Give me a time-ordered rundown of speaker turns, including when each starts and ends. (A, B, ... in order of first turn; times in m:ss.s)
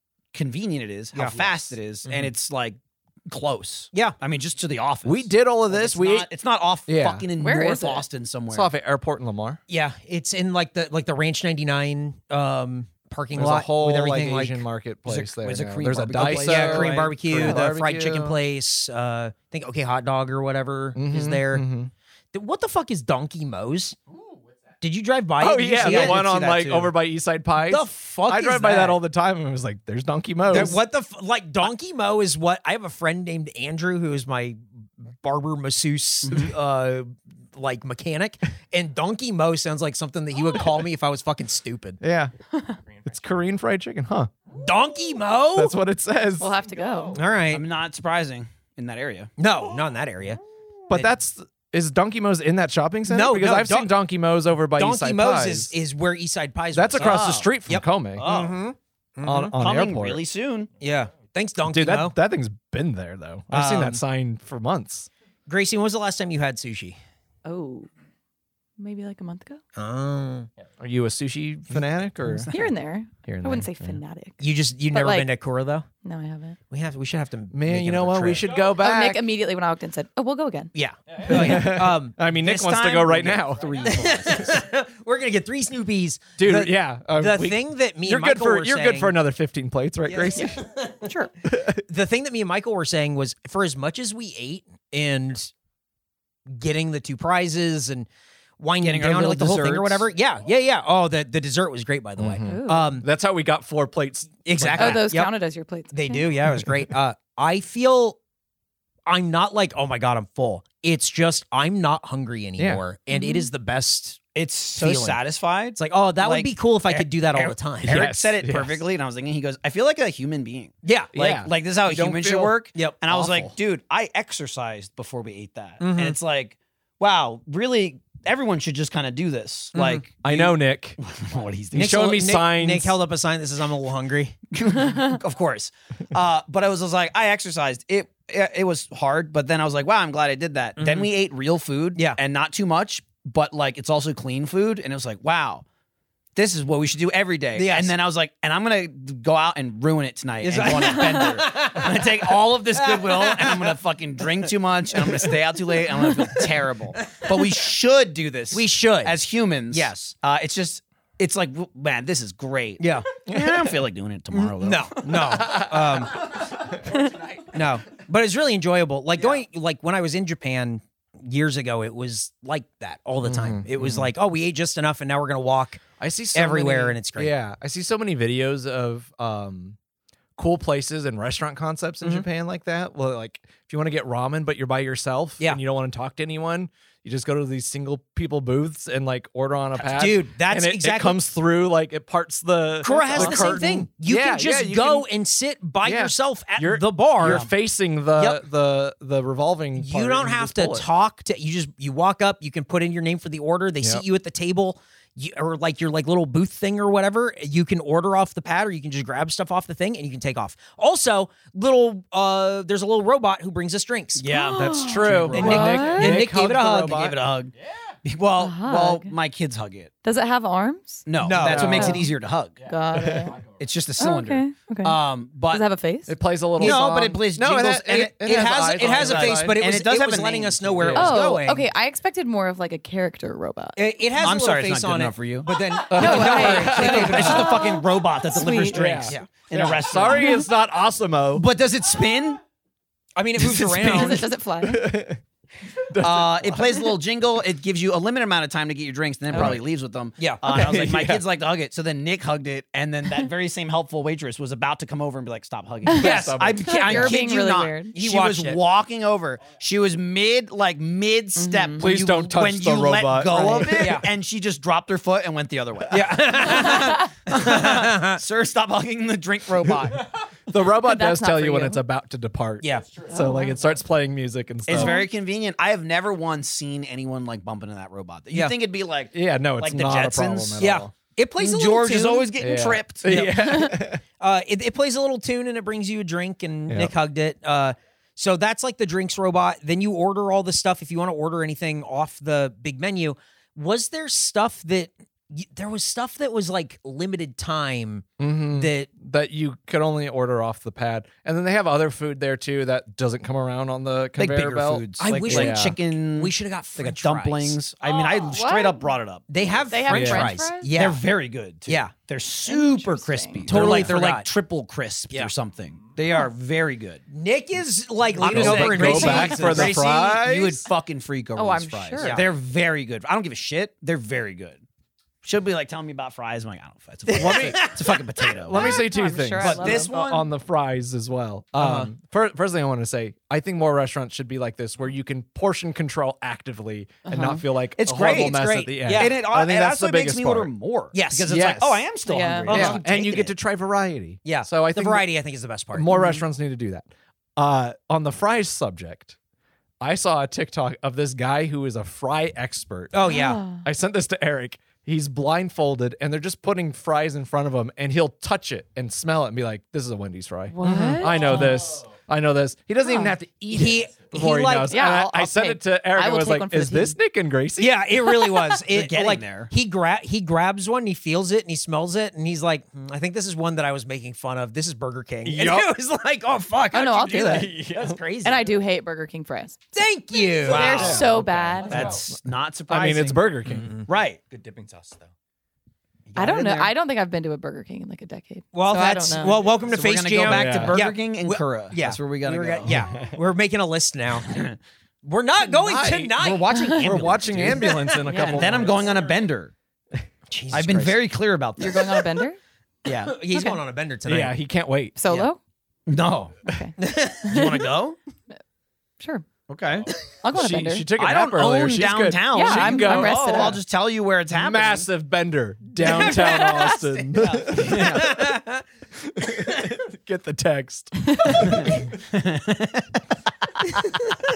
0:00.3-0:08.7 A
0:01.1-0:02.3 B
0:05.0-0:06.3 C
0:06.9-0:07.3 C
0:07.4-0:08.0 D
0:08.5-0:09.6 C
0:09.7-0:14.6 B
0:13.3-0:18.4 C
0:15.0-0:17.6 A
0:16.2-0:21.6 B
0:20.9-0:21.9 C
0:22.3-0:24.0 B
0:24.8-0:26.9 B
0:25.4-0:30.8 C
0:25.8-0:26.7 A
0:27.6-0:29.0 B
0:30.5-0:34.6 B
0:35.2-0:42.0 B
0:36.2-0:36.5 A
0:42.0-0:42.3 C
0:43.0-0:44.3 C
0:44.6-0:45.8 B
0:45.5-0:46.5 C
0:46.4-0:47.2 D
0:47.1-0:47.6 B
0:47.5-0:49.3 A
0:49.4-0:50.4 B
0:50.9-0:55.7 C
0:53.1-0:53.9 B
0:54.8-0:59.5 B
0:56.7-0:58.3 C
0:57.0-0:57.5 A
0:58.2-0:58.6 A
0:59.2-1:00.2 C
0:59.5-1:00.7 A
1:00.8-1:02.2 B
1:01.7-1:05.1 C
1:03.5-1:04.0 B
1:05.5-1:07.0 B
1:07.4-1:07.9 D
1:08.8-1:09.6 D
1:09.8-1:10.5 B
1:10.8-1:12.5 C
1:12.5-1:14.4 D
1:13.4-1:13.7 C
1:14.4-1:15.9 B
1:14.9-1:15.3 D
1:16.0-1:16.6 D
1:16.7-1:18.5 B
1:17.5-1:19.2 C
1:18.6-1:20.7 D
1:20.7-1:22.2 B
1:21.2-1:24.6 C
1:21.4-1:21.6 A
1:22.3-1:24.2 A
1:23.8-1:29.2 B
1:26.4-1:30.6 C
1:30.0-1:31.3 B
1:31.4-1:31.8 C
1:31.8-1:35.5 B
1:36.5-1:38.1 B
1:38.6-1:43.0 B
1:38.8-1:40.1 A
1:42.2-1:45.0 C
1:42.4-1:42.9 D
1:44.4-1:45.3 B
1:44.8-1:46.3 D
1:45.9-1:48.2 B
1:49.0-1:54.2 B
1:53.1-1:53.5 D
1:54.3-2:11.8 A
1:54.8-1:55.2 B
1:55.8-1:58.1 B
1:57.8-1:58.8 C
2:00.8-2:01.1 B
2:01.1-2:03.5 C
2:05.8-2:06.2 B
2:09.7-2:10.0 B
2:10.2-2:11.0 C
2:11.7-2:13.0 C
2:11.7-2:14.4 B
2:14.5-2:25.6 A
2:20.8-2:21.1 B
2:26.3-2:45.6 A
2:27.5-2:27.9 B
2:30.4-2:33.8 B
2:34.9-2:35.3 B
2:36.1-2:36.4 B
2:38.5-2:39.1 B
2:39.7-2:40.1 B
2:42.8-2:43.1 B
2:43.3-2:43.7 C
2:44.3-2:46.4 B
2:45.4-2:45.7 C
2:47.4-2:55.8 B
2:53.2-2:54.1 C
2:56.0-2:59.8 C
2:56.3-2:57.4 B
3:00.4-3:15.1 C
3:09.8-3:11.2 B
3:12.8-3:17.5 B
3:13.0-3:13.5 A
3:15.8-3:20.9 C
3:17.2-3:17.5 A
3:18.1-3:18.4 B
3:19.8-3:34.2 B
3:34.2-3:37.5 A
3:34.3-3:36.2 D
3:34.6-3:37.2 C
3:35.2-3:37.1 B
3:38.0-3:39.9 A
3:38.4-3:39.1 D
3:40.0-3:41.0 D
3:41.0-3:42.7 A
3:41.2-3:42.0 B
3:41.3-3:42.0 C
3:41.7-3:42.1 D
3:42.6-3:43.4 D
3:42.9-3:43.4 C
3:43.6-3:45.6 A
3:44.0-3:46.1 D
3:46.1-3:49.6 C
3:46.6-3:51.0 A
3:46.6-3:47.0 B
3:48.0-3:51.6 B
3:50.8-3:51.2 C
3:50.9-3:53.8 D
3:53.8-3:57.7 B
3:54.2-4:00.4 A
3:55.9-3:57.5 C
3:55.9-3:59.0 D
3:58.7-4:01.5 C
4:00.1-4:00.5 D
4:01.3-4:02.4 A
4:03.2-4:04.3 B
4:03.4-4:05.2 C
4:03.7-4:04.9 D
4:05.9-4:07.0 C
4:06.0-4:30.1 A
4:09.3-4:09.6 C
4:10.4-4:11.2 C
4:15.8-4:17.9 D
4:15.9-4:17.1 C
4:16.0-4:16.4 B
4:17.9-4:18.6 B
4:21.4-4:21.9 D
4:21.8-4:24.1 C
4:23.7-4:24.1 B
4:25.9-4:28.2 B
4:30.5-4:35.0 C
4:30.7-4:31.8 D
4:32.6-4:32.9 B
4:33.1-4:33.6 D
4:34.7-4:40.7 A
4:34.7-4:35.1 D
4:38.3-4:38.6 B
4:39.1-4:40.9 C
4:40.6-4:42.3 B
4:41.4-4:43.4 A
4:42.4-4:44.0 C
4:43.1-4:43.6 B
4:43.4-4:43.8 D
4:44.2-4:58.9 B
4:46.7-4:46.9 C
4:58.2-5:05.8 C
5:04.2-5:09.6 A
5:05.0-5:07.6 B
5:07.8-5:08.9 D
5:09.3-5:11.0 B
5:09.7-5:10.7 D
5:09.9-5:10.4 C
5:10.7-5:17.0 A
5:11.7-5:11.9 B
5:12.5-5:13.5 D
5:13.4-5:14.3 B
5:13.5-5:13.9 C
5:17.1-5:20.0 B
5:18.2-5:24.6 A
5:18.2-5:20.6 C
5:18.8-5:19.4 D
5:21.3-5:22.2 D
5:22.0-5:22.3 B
5:25.2-5:28.8 A
5:27.1-5:28.1 B
5:27.1-5:27.7 C
5:28.3-5:40.5 C
5:28.5-5:29.9 D
5:29.4-5:30.2 A
5:31.6-5:31.9 B
5:37.1-5:39.2 B
5:37.8-5:43.3 A
5:40.9-5:41.3 B
5:41.3-5:41.9 C
5:42.0-5:42.7 D
5:42.5-5:42.8 B
5:42.5-5:45.1 C
5:44.2-5:45.9 B
5:45.7-5:49.2 C
5:45.9-5:46.2 D
5:49.8-6:07.8 C
5:52.9-5:53.4 B
5:53.0-5:53.6 D
6:00.5-6:01.6 D
6:00.6-6:01.0 B
6:01.0-6:01.9 E
6:02.8-6:03.1 D
6:03.5-6:04.7 B
6:04.7-6:07.0 D
6:07.6-6:18.5 B
6:08.6-6:09.5 A
6:15.2-6:15.8 C
6:16.7-6:17.6 D
6:17.0-6:18.0 C
6:18.2-6:19.6 D
6:19.7-6:20.9 B
6:20.3-6:22.0 D
6:20.4-6:21.0 A
6:20.4-6:22.1 C
6:20.9-6:22.0 E
6:21.7-6:23.3 A
6:22.7-6:23.8 C
6:23.5-6:23.8 B
6:23.9-6:24.2 A
6:24.3-6:25.1 E
6:26.1-6:26.7 B
6:26.1-6:29.5 D
6:28.5-6:34.5 B
6:29.6-6:32.9 A
6:30.2-6:30.8 C
6:34.2-6:34.6 A
6:35.0-6:38.0 B
6:35.4-6:38.9 C
6:36.5-6:37.0 D
6:36.8-6:37.6 A
6:38.0-6:38.6 D
6:38.2-6:39.5 A
6:40.3-6:41.0 B
6:40.5-6:42.1 A
6:41.6-6:42.4 D
6:42.8-6:43.1 A
6:42.9-6:44.3 B
6:43.3-6:43.6 D
6:44.0-6:45.2 C
6:45.0-6:45.4 D
6:45.9-6:46.5 A
6:46.4-6:47.7 D
6:46.8-6:47.5 B
6:47.3-6:48.0 A
6:49.0-6:49.2 D
6:49.5-6:49.9 A
6:50.1-6:50.9 D
6:50.3-6:53.6 C
6:51.0-6:54.9 A
6:52.3-6:53.6 D
6:54.3-6:58.4 C
6:55.8-6:57.0 D
6:57.2-6:58.1 A
6:57.5-6:58.6 B
6:59.0-7:01.8 C
7:01.4-7:03.0 A